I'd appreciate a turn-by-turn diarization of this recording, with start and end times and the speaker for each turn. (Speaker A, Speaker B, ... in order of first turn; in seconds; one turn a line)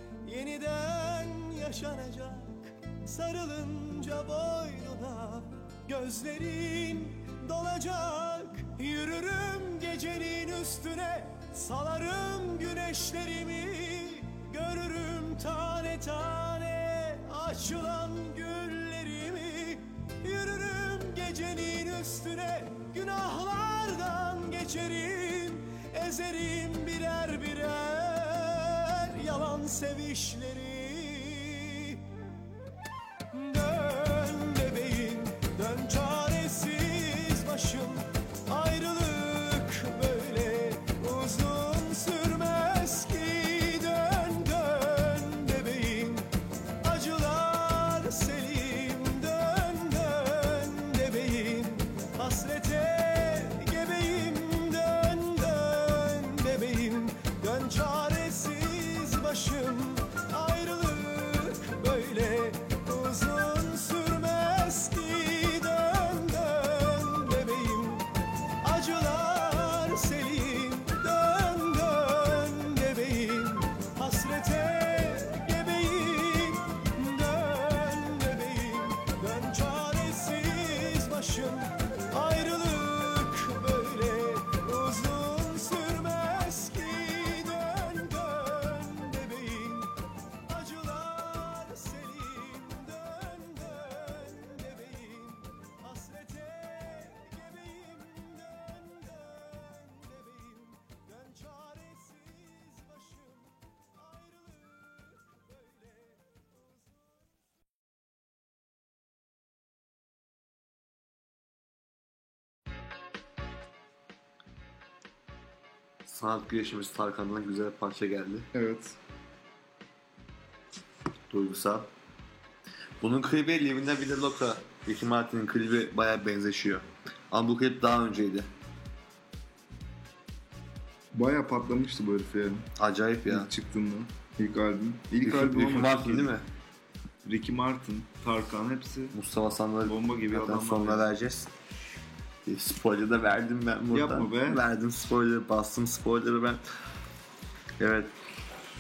Speaker A: 0.2-32.0
Speaker A: 33.3-46.3
Speaker A: 46.8-68.1
Speaker A: 68.6-89.9
Speaker A: 90.5-106.5
Speaker B: 116.0-118.5
Speaker C: 118.5-119.0
Speaker B: 121.3-121.9
Speaker B: 123.0-128.5
Speaker C: 131.1-132.7
Speaker B: 132.8-133.5
Speaker C: 133.3-136.3
Speaker B: 135.2-136.4
Speaker C: 137.2-139.2
Speaker B: 139.2-141.5
Speaker C: 139.8-141.1
Speaker B: 142.5-146.6
Speaker C: 143.9-144.6
Speaker B: 147.8-148.1